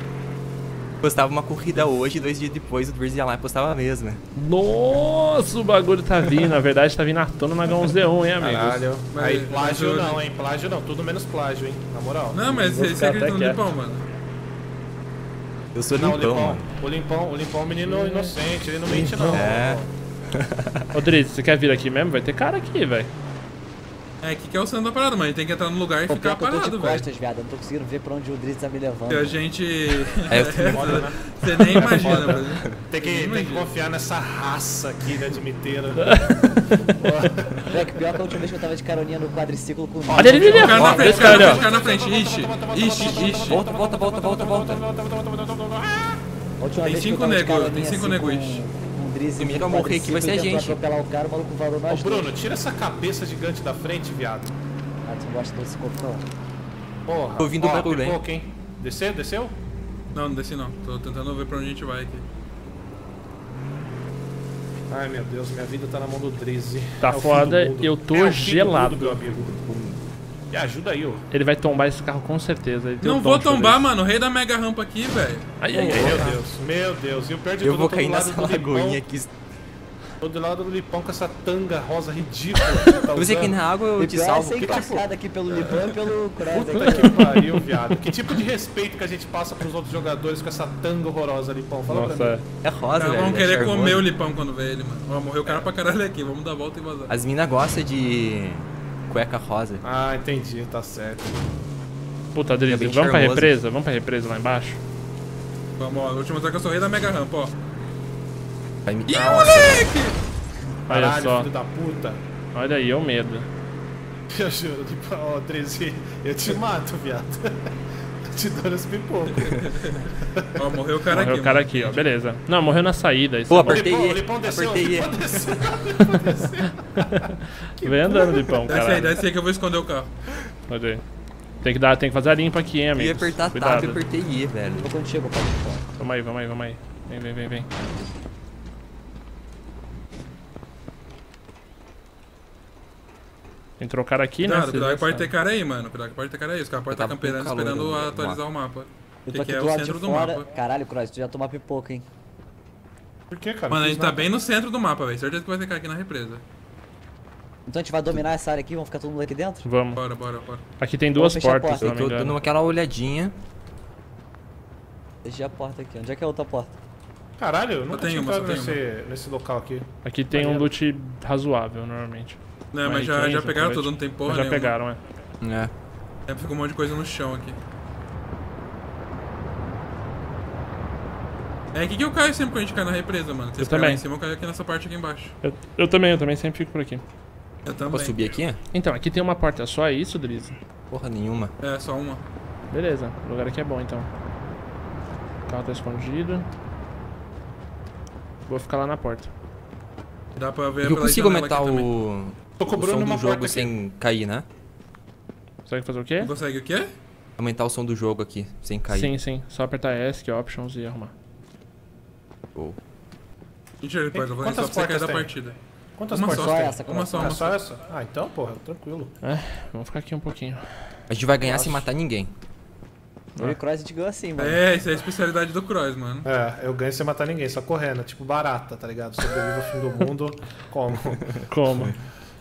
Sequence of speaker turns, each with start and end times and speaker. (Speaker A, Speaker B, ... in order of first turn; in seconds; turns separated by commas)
Speaker A: 1.0-4.2, Speaker B: 4.4-8.8, Speaker C: 8.4-12.5, Speaker D: 9.1-10.2, Speaker D: 12.3-14.0, Speaker B: 12.5-13.6, Speaker A: 15.8-16.7, Speaker C: 16.0-19.9, Speaker B: 17.9-19.5, Speaker A: 19.3-20.9, Speaker B: 20.9-23.1, Speaker D: 24.2-27.1, Speaker E: 26.1-29.4, Speaker D: 29.1-33.7, Speaker A: 30.3-31.1, Speaker C: 30.7-31.2, Speaker C: 31.8-38.0, Speaker A: 31.9-32.8, Speaker B: 36.0-36.9, Speaker E: 37.6-41.6, Speaker C: 40.1-46.2, Speaker B: 40.1-41.6, Speaker D: 40.5-43.6, Speaker A: 40.8-41.3, Speaker A: 43.1-44.8, Speaker E: 46.6-52.4, Speaker D: 46.8-48.6, Speaker A: 49.4-50.8, Speaker C: 51.9-54.5, Speaker E: 55.0-56.2, Speaker C: 57.1-59.5, Speaker A: 57.4-58.2, Speaker D: 60.1-62.3, Speaker C: 64.9-69.5, Speaker B: 67.0-69.2, Speaker A: 69.4-70.0, Speaker C: 70.5-71.2, Speaker B: 71.3-73.9, Speaker D: 73.0-75.5, Speaker B: 75.6-76.4, Speaker C: 75.7-79.0, Speaker A: 75.9-76.3, Speaker A: 77.6-79.3, Speaker C: 80.2-83.6, Speaker A: 83.1-85.0, Speaker E: 84.0-87.2, Speaker C: 86.4-92.4, Speaker B: 86.8-87.5, Speaker B: 91.9-92.4, Speaker A: 92.6-94.1, Speaker D: 93.0-97.1, Speaker A: 97.1-99.8, Speaker C: 99.8-101.4, Speaker B: 102.3-104.8, Speaker A: 102.7-103.5, Speaker D: 105.8-107.5, Speaker A: 108.9-109.9, Speaker D: 109.1-110.2, Speaker B: 110.9-111.5, Speaker C: 110.9-112.2, Speaker B: 112.5-113.5, Speaker C: 114.3-117.7, Speaker C: 118.3-120.6, Speaker D: 119.3-122.0, Speaker B: 121.1-123.9, Speaker A: 123.5-125.5, Speaker C: 123.6-128.8, Speaker B: 127.1-129.2, Speaker D: 128.7-130.1, Speaker B: 130.7-131.0, Speaker B: 131.6-134.0, Speaker A: 132.9-134.9, Speaker E: 134.8-135.9, Speaker B: 136.0-137.7, Speaker B: 143.8-145.3, Speaker D: 144.4-150.5, Speaker A: 146.9-148.4, Speaker E: 149.3-152.1, Speaker C: 153.3-154.3, Speaker D: 153.7-156.4, Speaker E: 157.7-159.7, Speaker B: 159.7-160.0, Speaker D: 159.9-160.6, Speaker B: 160.8-162.4, Speaker E: 161.2-161.9, Speaker A: 161.8-163.3, Speaker E: 165.2-166.8, Speaker C: 167.4-169.9, Speaker D: 167.9-168.8, Speaker B: 170.1-175.0, Speaker D: 172.7-174.8, Speaker A: 175.4-175.7, Speaker D: 176.3-177.6, Speaker D: 181.7-185.3, Speaker B: 183.6-184.0, Speaker B: 185.4-187.0, Speaker D: 187.7-188.2, Speaker A: 187.9-188.6, Speaker B: 188.7-190.6, Speaker A: 190.9-191.5, Speaker D: 191.6-192.2, Speaker B: 192.7-194.1, Speaker B: 195.5-196.5, Speaker B: 198.5-199.3, Speaker D: 200.4-201.9, Speaker A: 200.8-204.5, Speaker C: 202.6-203.7, Speaker B: 205.7-206.3, Speaker D: 206.2-206.9, Speaker A: 207.4-209.1, Speaker B: 208.9-211.1, Speaker D: 213.8-215.6, Speaker C: 214.1-215.3, Speaker C: 216.0-219.1, Speaker D: 216.1-217.6, Speaker E: 216.3-217.4, Speaker B: 219.2-220.8, Speaker A: 221.1-222.3, Speaker E: 221.5-221.8, Speaker E: 223.4-224.6, Speaker D: 224.4-226.3, Speaker C: 226.2-231.4, Speaker B: 231.5-232.0